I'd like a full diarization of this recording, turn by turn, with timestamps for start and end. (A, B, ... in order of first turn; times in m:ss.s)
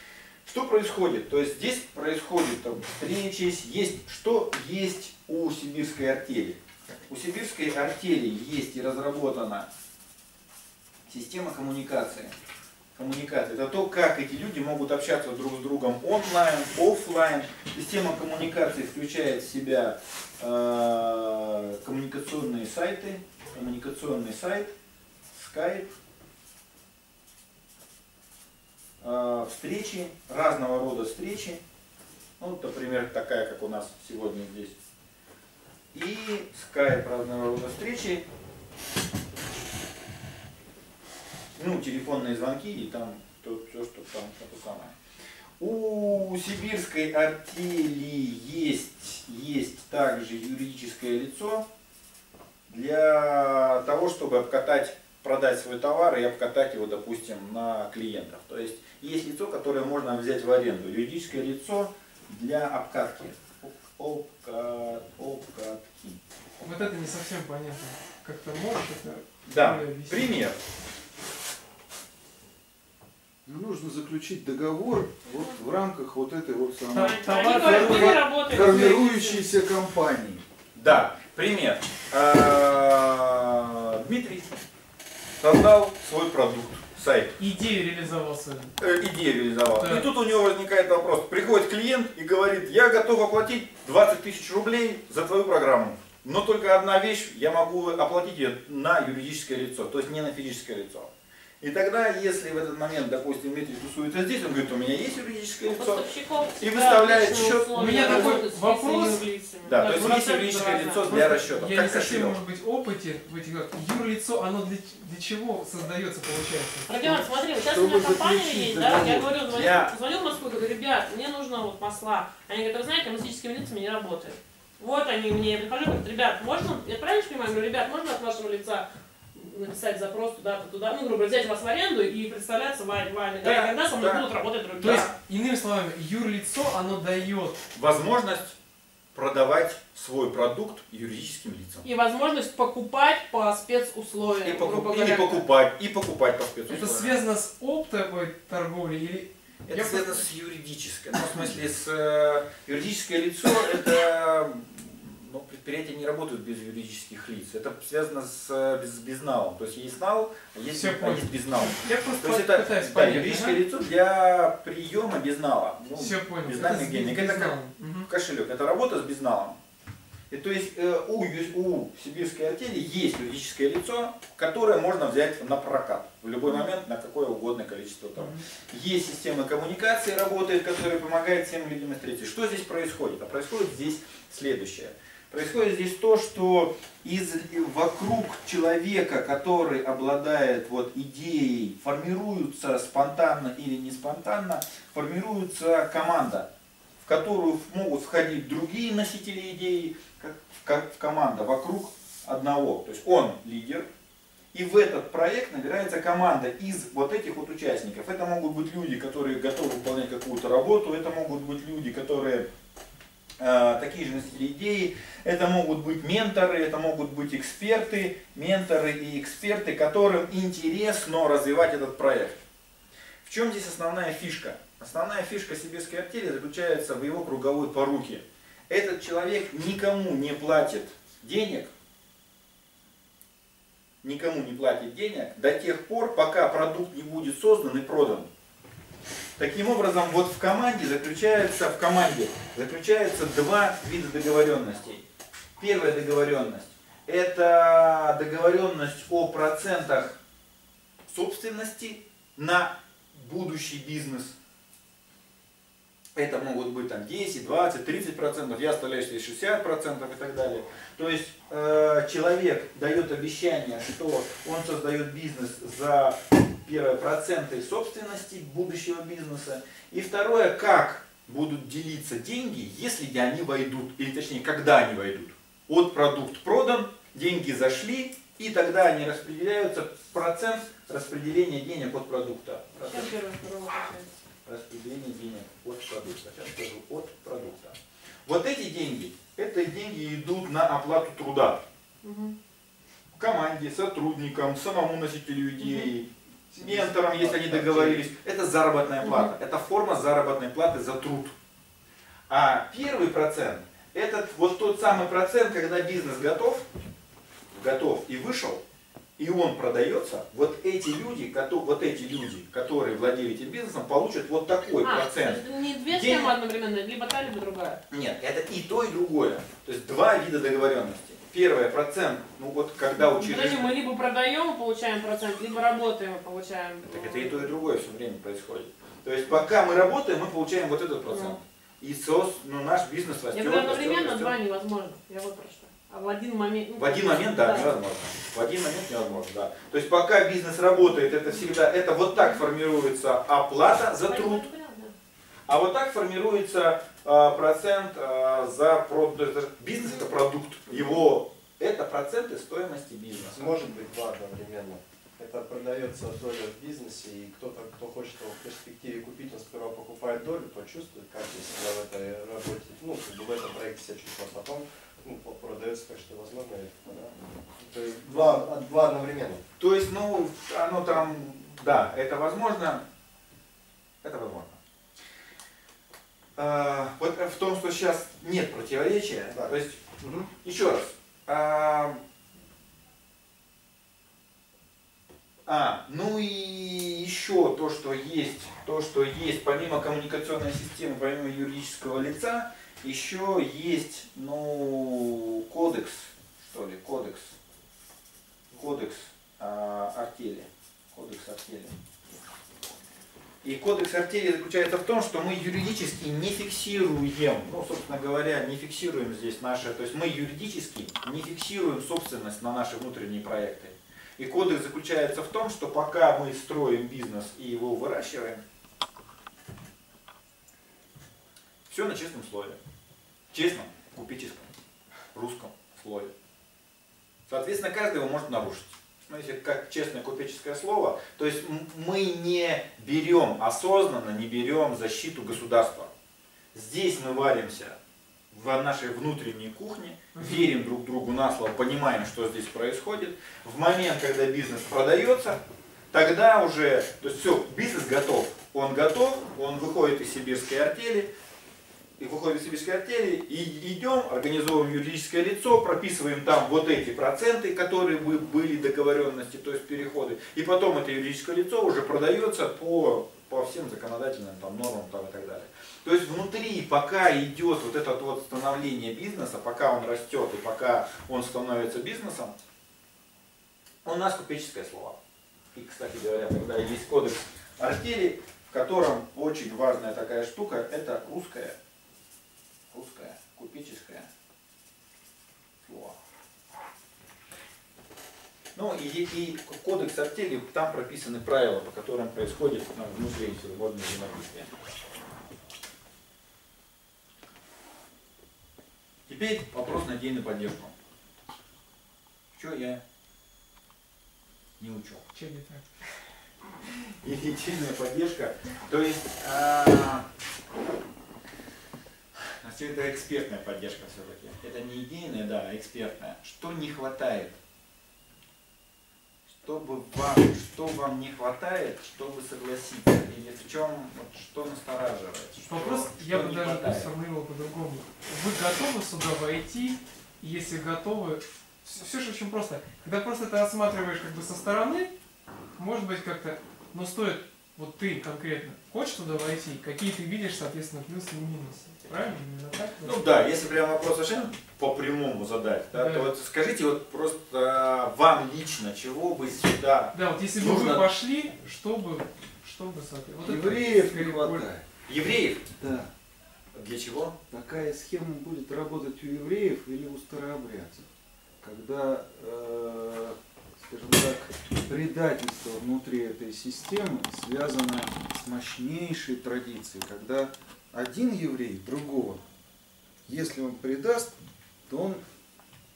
0:00.4-0:09.7 A
0:11.1-0:12.3 A
0:12.9-0:24.7 A
0:25.3-0:25.9 A
0:29.0-0:31.6 A
0:32.4-0:34.8 A
0:35.9-0:38.2 A
0:41.6-0:44.9 A
0:45.6-0:51.6 A
0:52.7-1:06.2 A
1:06.6-1:10.3 B
1:09.4-1:10.6 A
1:13.4-1:20.4 C
1:16.9-1:19.1 B
1:16.9-1:19.5 D
1:20.7-1:24.6 A
1:25.4-1:27.4 A
1:27.4-1:28.8 B
1:28.8-1:46.0 A
1:29.8-1:30.1 B
1:45.7-1:51.1 D
1:46.6-1:48.4 A
1:47.8-1:49.2 B
1:49.6-1:52.4 A
1:51.0-1:57.2 B
1:56.9-2:15.1 D
1:57.6-1:59.4 C
1:59.5-1:59.9 A
2:13.4-2:14.3 A
2:14.8-2:15.1 A
2:14.8-2:17.6 B
2:17.7-2:18.6 A
2:19.1-2:21.8 A
2:21.8-2:25.4 D
2:24.4-2:27.2 A
2:26.7-2:30.2 B
2:29.7-2:49.6 A
2:40.7-2:43.6 B
2:45.9-2:48.1 B
2:50.3-3:16.5 A
3:17.0-3:23.9 A
3:24.5-3:32.5 A
3:33.4-3:42.4 A
3:43.2-3:51.7 A
3:54.0-3:58.3 A
3:59.4-4:05.0 A
4:05.6-4:10.2 A
4:11.1-4:14.4 A
4:16.1-4:43.1 A
4:42.8-4:44.1 D
4:44.4-4:51.6 A
4:52.0-4:52.4 D
4:53.2-5:01.4 A
4:55.6-4:55.9 D
4:56.6-4:58.0 C
4:57.6-4:57.8 E
4:59.0-4:59.3 D
5:02.3-5:06.6 A
5:07.5-5:08.6 A
5:09.2-5:16.3 A
5:14.8-5:17.8 D
5:17.9-5:23.7 A
5:23.0-5:27.5 D
5:26.8-5:34.4 A
5:31.1-5:31.4 D
5:33.3-5:37.8 D
5:36.8-5:44.4 A
5:42.1-5:42.4 D
5:44.1-5:44.9 D
5:45.5-5:53.5 A
5:53.2-6:09.4 E
6:08.0-6:08.4 A
6:09.6-6:12.8 A
6:14.0-6:14.6 A
6:16.4-6:19.8 A
6:19.3-6:20.3 E
6:20.4-6:22.0 A
6:25.4-6:37.3 A
6:38.6-6:41.7 A
6:43.4-6:58.4 A
7:01.7-7:02.6 A
7:03.3-7:04.5 A
7:05.1-7:06.1 A
7:07.3-7:15.9 A
7:16.5-7:17.8 A
7:18.3-7:25.4 A
7:20.2-7:20.4 B
7:25.9-7:31.1 A
7:32.0-7:52.4 A
7:53.8-7:55.0 A
7:55.5-8:01.6 A
8:02.7-8:04.1 A
8:05.6-8:06.0 A
8:08.6-8:14.5 A
8:19.1-8:20.7 A
8:22.3-8:22.8 A
8:24.6-8:25.0 A
8:25.1-8:25.6 B
8:27.0-8:30.0 A
8:32.3-8:37.4 A
8:39.3-8:46.9 A
8:45.5-8:54.9 B
8:55.6-9:03.0 B
9:02.8-9:10.8 A
9:05.7-9:06.1 B
9:09.9-9:14.5 B
9:13.2-9:14.6 C
9:14.9-9:15.4 A
9:15.5-9:15.9 C
9:16.5-9:17.1 A
9:17.3-9:20.9 C
9:21.4-9:32.2 C
9:33.0-9:34.1 C
9:34.7-9:35.0 C